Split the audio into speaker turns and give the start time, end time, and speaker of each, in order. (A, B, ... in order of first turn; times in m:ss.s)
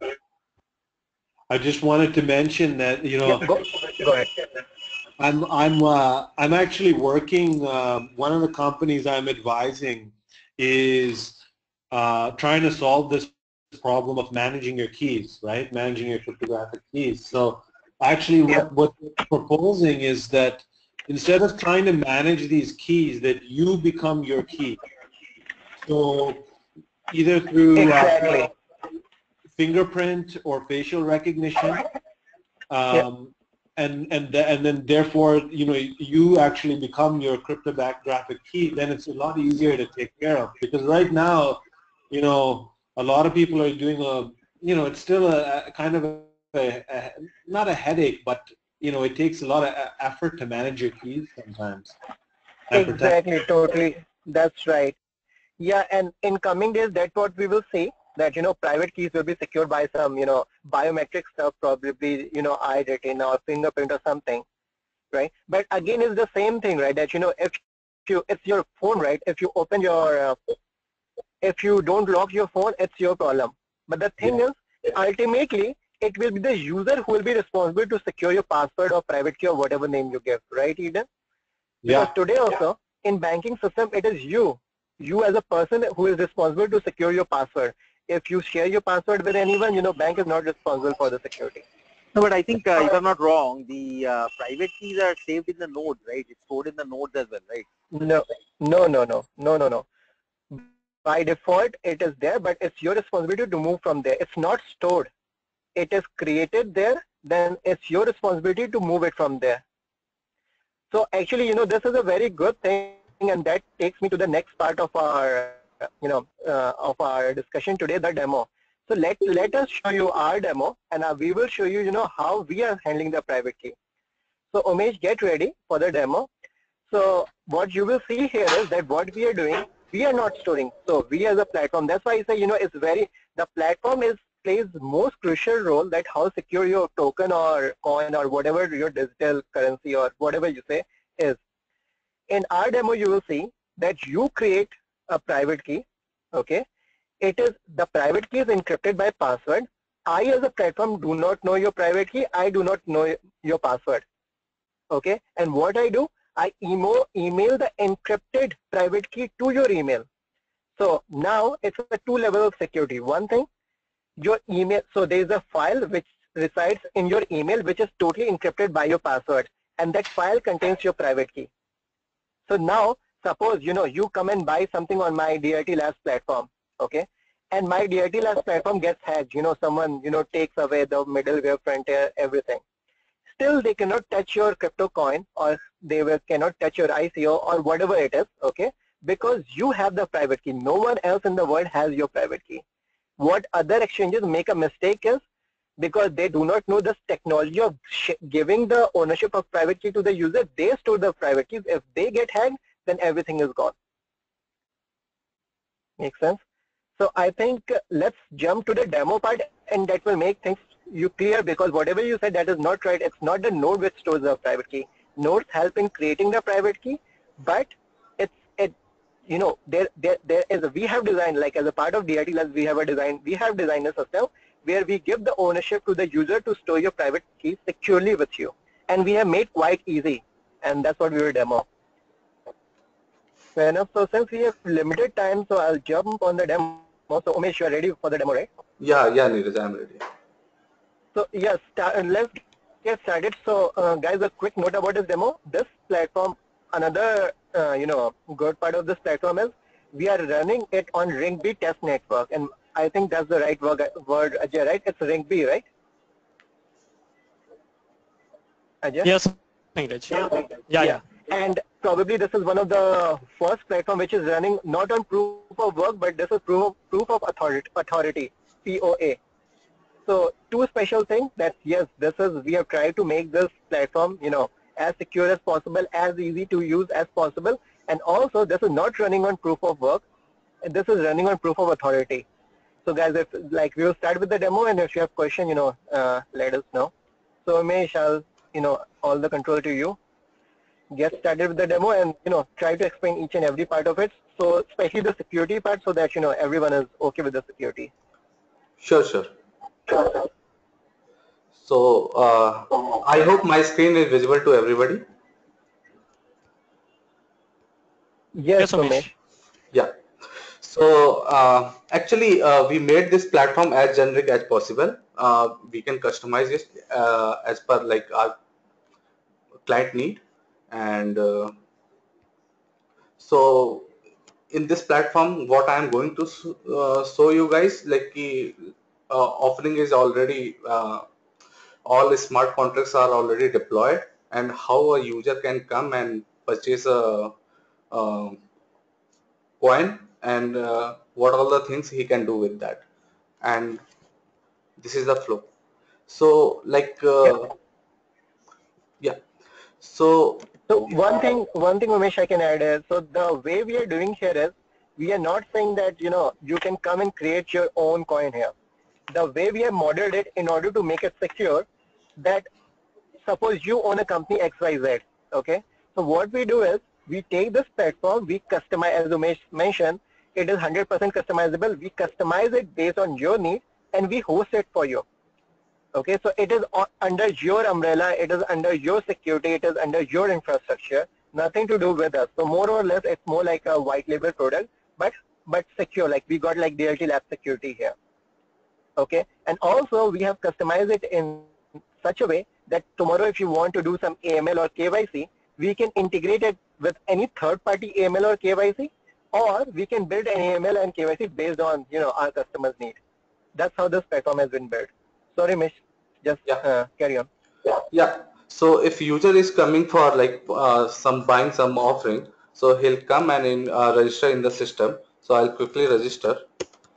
0:01.5-0:03.5 A
0:03.2-0:04.4 B
0:05.2-0:11.4 A
0:11.9-0:24.8 A
0:25.8-0:26.5 A
0:27.1-0:28.5 A
0:27.8-0:28.5 B
0:29.6-0:31.8 A
0:32.7-0:52.0 A
0:52.7-0:53.2 A
0:52.7-0:55.0 B
0:55.6-1:04.4 B
1:05.1-1:10.6 B
1:11.4-1:21.1 B
1:21.8-1:22.1 A
1:21.9-1:31.6 B
1:32.1-1:37.7 C
1:37.9-1:39.8 B
1:40.5-1:45.1 B
1:45.8-1:49.6 B
1:50.9-2:03.7 B
2:04.5-2:06.3 B
2:06.9-2:21.4 B
2:22.3-2:26.6 B
2:27.2-2:34.0 B
2:34.9-2:40.0 B
2:40.8-2:43.5 B
2:44.2-2:51.5 B
2:52.5-3:02.6 B
3:03.3-3:12.6 B
3:13.2-3:15.2 B
3:15.8-3:23.7 B
3:26.0-3:26.4 B
3:27.0-3:38.7 B
3:39.3-3:51.7 B
3:53.6-3:58.5 B
3:58.8-4:00.0 D
4:01.1-4:15.6 B
4:18.8-4:19.1 B
4:19.0-4:21.0 E
4:20.8-4:29.2 B
4:30.0-4:40.0 B
4:40.6-4:42.2 B
4:42.8-4:46.9 B
4:47.4-4:50.0 B
4:50.9-4:57.9 B
4:58.8-4:59.3 D
5:01.6-5:05.0 D
5:08.4-5:09.1 B
5:08.6-5:09.1 E
5:10.6-5:18.4 D
5:19.6-5:21.5 D
5:23.2-5:23.9 D
5:24.5-5:31.0 D
5:31.8-5:37.3 D
5:37.9-5:38.4 D
5:39.6-5:42.8 D
5:43.4-5:43.8 D
5:44.8-5:45.5 D
5:46.1-5:47.5 D
5:49.8-5:50.5 D
5:50.7-5:58.5 B
5:59.1-6:01.6 B
6:02.2-6:02.5 B
6:03.2-6:15.0 B
6:15.9-6:27.9 B
6:29.0-6:43.0 B
6:43.6-6:47.3 B
6:47.9-6:56.4 D